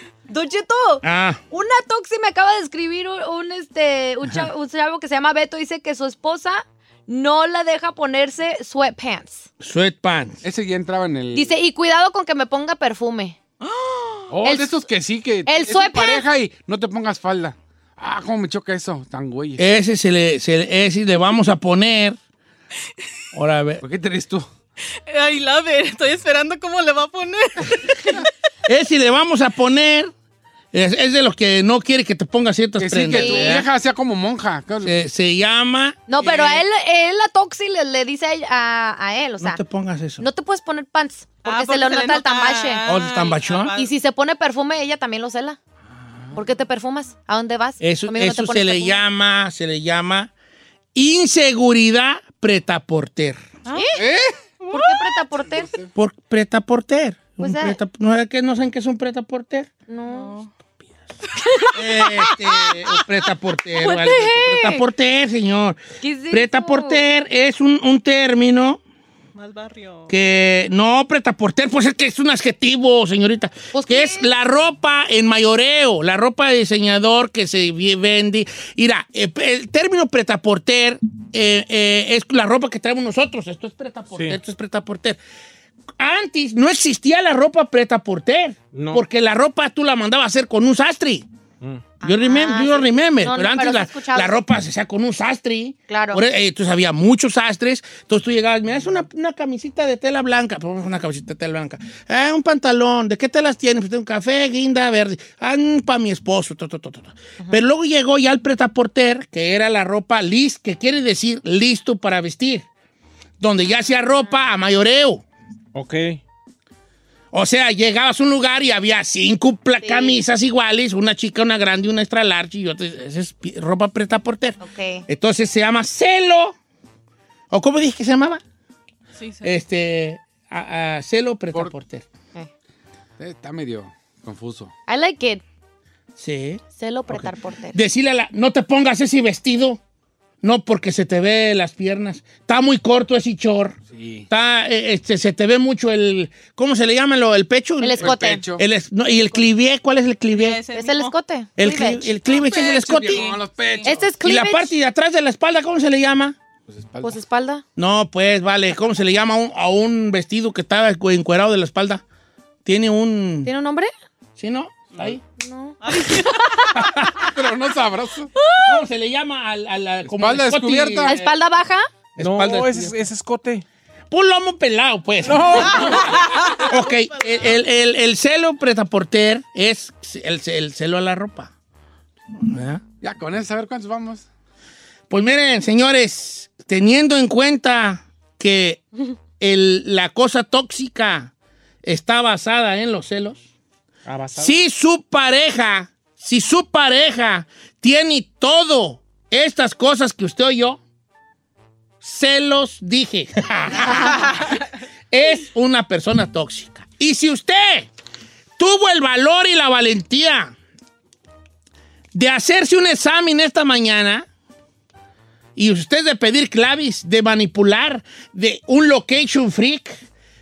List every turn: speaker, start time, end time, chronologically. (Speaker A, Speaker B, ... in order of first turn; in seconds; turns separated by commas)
Speaker A: 0.3-9.5, Speaker B: 1.0-1.4, Speaker B: 9.6-10.4, Speaker C: 10.4-11.6, Speaker A: 11.3-13.4, Speaker D: 13.6-14.3, Speaker C: 14.3-19.6, Speaker A: 14.4-14.7, Speaker A: 15.5-16.3, Speaker B: 19.6-22.2, Speaker B: 23.3-23.8, Speaker C: 23.8-24.5, Speaker D: 25.1-28.2, Speaker B: 28.7-30.1, Speaker B: 30.7-33.7, Speaker C: 32.8-35.0, Speaker A: 33.1-33.6, Speaker B: 34.8-36.6, Speaker A: 36.1-39.6, Speaker B: 39.4-40.2, Speaker A: 40.2-42.8, Speaker D: 41.4-43.9, Speaker B: 42.9-43.7, Speaker A: 43.8-45.6, Speaker A: 46.3-49.0, Speaker B: 47.8-50.3, Speaker B: 51.0-53.4, Speaker C: 54.0-54.4, Speaker A: 54.7-55.7, Speaker C: 55.5-55.9, Speaker B: 56.0-59.7, Speaker A: 57.4-57.8, Speaker A: 59.9-60.4, Speaker D: 60.1-60.5, Speaker D: 61.4-62.3, Speaker B: 61.7-65.8, Speaker A: 63.8-64.8, Speaker A: 66.0-67.0, Speaker B: 66.3-68.8, Speaker D: 69.4-70.1, Speaker B: 70.1-85.2, Speaker A: 73.7-74.3, Speaker B: 86.0-91.3, Speaker E: 88.7-89.0, Speaker A: 92.0-94.4, Speaker B: 92.0-112.7, Speaker A: 95.9-96.2, Speaker B: 113.4-115.2, Speaker E: 115.7-116.2, Speaker B: 117.3-126.6, Speaker A: 119.8-120.2, Speaker A: 124.6-125.0, Speaker B: 127.5-128.4, Speaker D: 129.2-129.6, Speaker B: 129.4-132.1, Speaker C: 133.2-134.7, Speaker A: 134.9-135.4, Speaker B: 136.2-139.8, Speaker A: 136.8-137.8, Speaker B: 140.4-143.8, Speaker C: 143.9-144.3, Speaker B: 144.3-150.6, Speaker A: 147.8-148.5, Speaker C: 148.0-148.6, Speaker D: 150.3-151.2, Speaker A: 150.7-152.1, Speaker B: 151.6-153.3, Speaker C: 152.3-154.1, Speaker D: 153.1-153.9, Speaker A: 153.9-154.8, Speaker B: 154.2-156.3, Speaker C: 156.7-157.2, Speaker A: 157.0-157.6, Speaker B: 157.8-162.0, Speaker B: 162.7-163.5, Speaker A: 163.5-163.9, Speaker B: 164.4-165.2, Speaker A: 165.4-166.9, Speaker D: 165.8-166.9, Speaker B: 166.8-167.0, Speaker C: 167.2-168.3, Speaker A: 168.4-168.8, Speaker B: 168.6-171.4, Speaker C: 170.1-171.2, Speaker A: 171.1-171.8, Speaker B: 172.2-172.9, Speaker E: 172.2-173.6, Speaker B: 174.1-181.5, Speaker E: 175.2-176.2, Speaker D: 175.7-177.6, Speaker B: 182.3-182.8, Speaker C: 183.0-184.3, Speaker B: 185.1-188.8, Speaker B: 189.4-191.3, Speaker B: 191.8-193.4, Speaker E: 194.1-194.6, Speaker B: 194.4-200.8, Speaker B: 202.0-204.6, Speaker B: 205.1-207.9, Speaker B: 208.6-210.5, Speaker B: 212.1-214.3, Speaker B: 215.6-220.0